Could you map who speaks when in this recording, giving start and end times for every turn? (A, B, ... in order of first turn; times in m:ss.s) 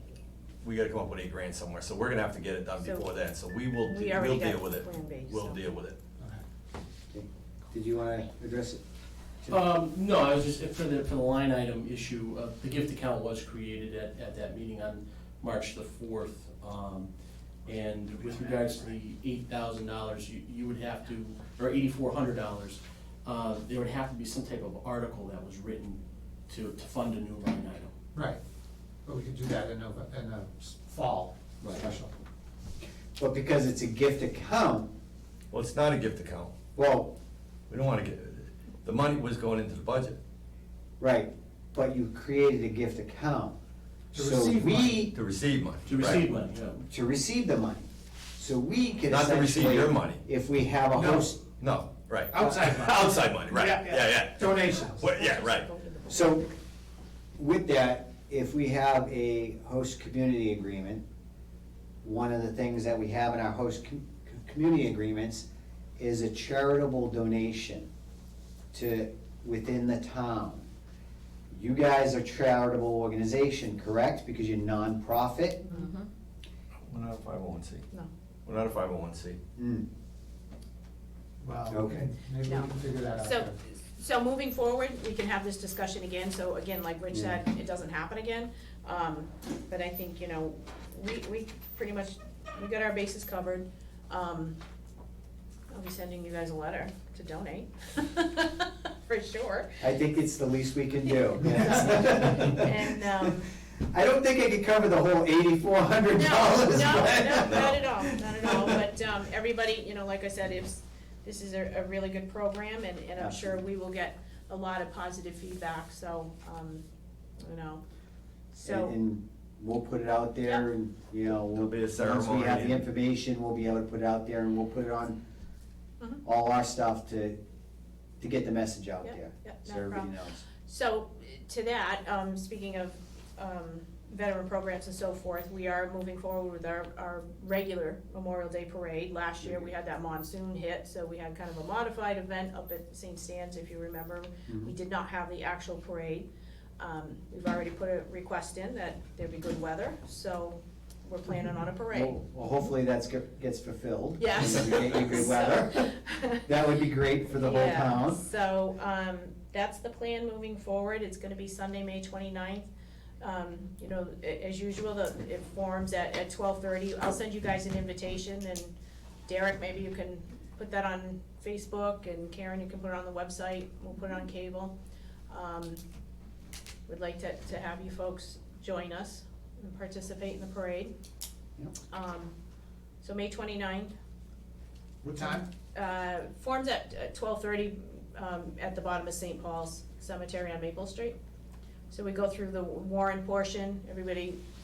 0:00.6-0:06.0 A
0:02.8-0:03.0 B
0:03.8-0:05.6 B
0:07.1-0:08.8 C
0:09.5-0:17.1 D
0:17.6-0:27.9 D
0:28.1-0:28.4 E
0:29.0-0:32.1 E
0:31.6-0:31.9 C
0:33.2-0:34.9 C
0:35.5-0:36.5 A
0:36.8-0:37.1 C
0:37.7-0:40.2 A
0:41.0-0:43.6 C
0:44.1-0:45.1 E
0:44.1-0:45.1 C
0:45.1-0:46.2 A
0:45.9-0:46.8 D
0:46.9-0:51.4 C
0:49.1-0:50.2 A
0:50.9-0:51.3 E
0:51.6-0:55.7 A
0:52.3-0:55.0 E
0:55.0-0:56.6 B
0:56.1-0:56.5 C
0:57.4-1:01.0 C
1:02.0-1:05.5 C
1:06.0-1:07.9 C
1:08.7-1:10.6 C
1:11.5-1:15.6 C
1:15.6-1:16.1 B
1:16.9-1:17.8 A
1:18.4-1:19.4 A
1:19.6-1:19.9 C
1:21.4-1:23.6 E
1:21.7-1:22.1 C
1:22.4-1:34.6 B
1:27.1-1:27.4 C
1:35.7-1:39.7 B
1:39.8-1:48.8 C
1:41.1-1:43.5 B
1:46.1-1:56.8 B
1:47.2-1:47.8 A
1:53.2-1:53.6 C
1:57.4-1:57.8 B
1:58.5-1:59.0 B
1:58.6-2:05.2 C
2:01.4-2:02.9 A
2:06.2-2:07.4 C
2:08.2-2:10.4 C
2:09.0-2:26.3 B
2:19.4-2:19.7 C
2:24.5-2:24.7 C
2:26.8-2:32.2 B
2:31.9-2:35.9 C
2:34.2-2:36.4 B
2:36.4-2:38.2 C
2:37.4-2:42.7 B
2:43.2-2:48.7 B
2:49.2-2:54.7 B
2:55.3-2:55.8 B
2:56.9-3:00.9 B
3:01.9-3:02.3 B
3:03.0-3:03.9 B
3:05.0-3:05.4 E
3:05.2-3:11.2 B
3:11.9-3:14.4 B